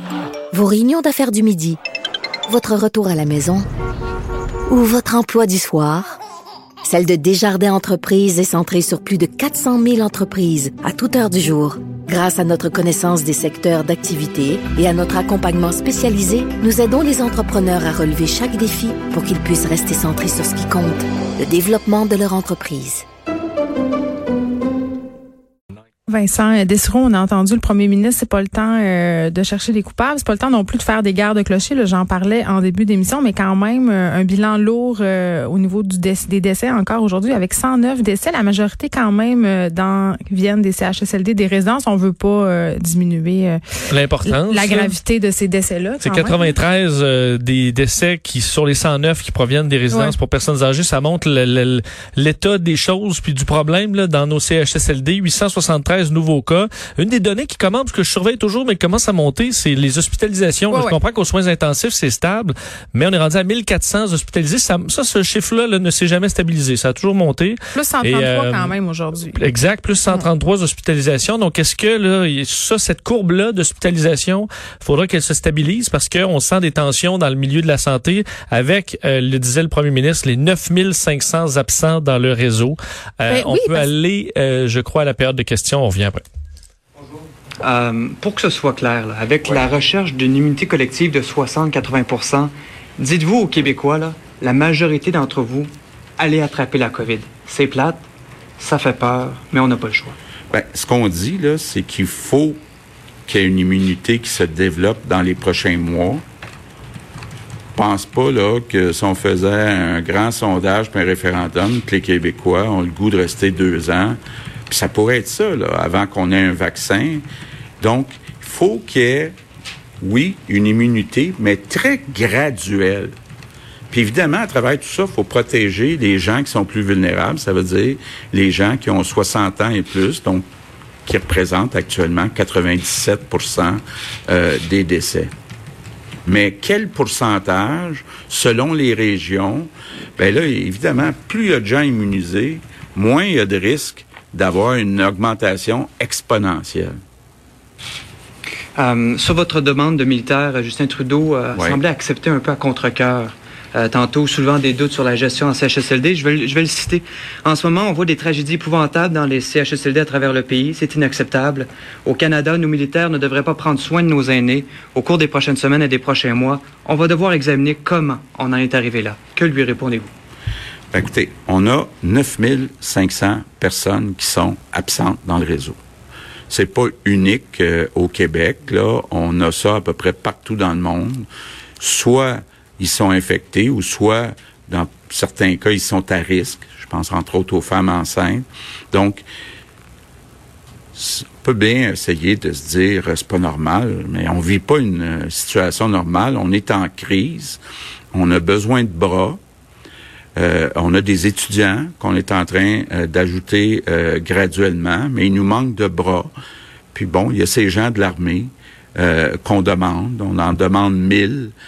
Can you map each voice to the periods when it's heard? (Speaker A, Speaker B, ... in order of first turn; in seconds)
Speaker A: 0.5-1.8, 2.5-3.7, 4.7-6.2, 6.8-23.0
Speaker B: 26.1-43.6, 44.2-46.6, 49.9-50.1, 60.7-61.0, 67.8-69.4, 83.3-83.9
Speaker C: 43.9-44.9, 46.0-68.8, 69.3-86.2
Speaker D: 87.6-98.0, 98.6-100.2, 148.8-170.1
Speaker E: 100.5-102.6, 103.3-106.2, 107.8-117.2, 117.8-119.3, 120.0-123.1, 123.9-130.4, 131.1-135.3, 136.3-146.9, 151.6-151.8, 170.9-175.8, 176.5-181.3, 181.8-189.2, 191.0-197.6, 198.1-199.4, 200.4-206.3, 206.9-211.5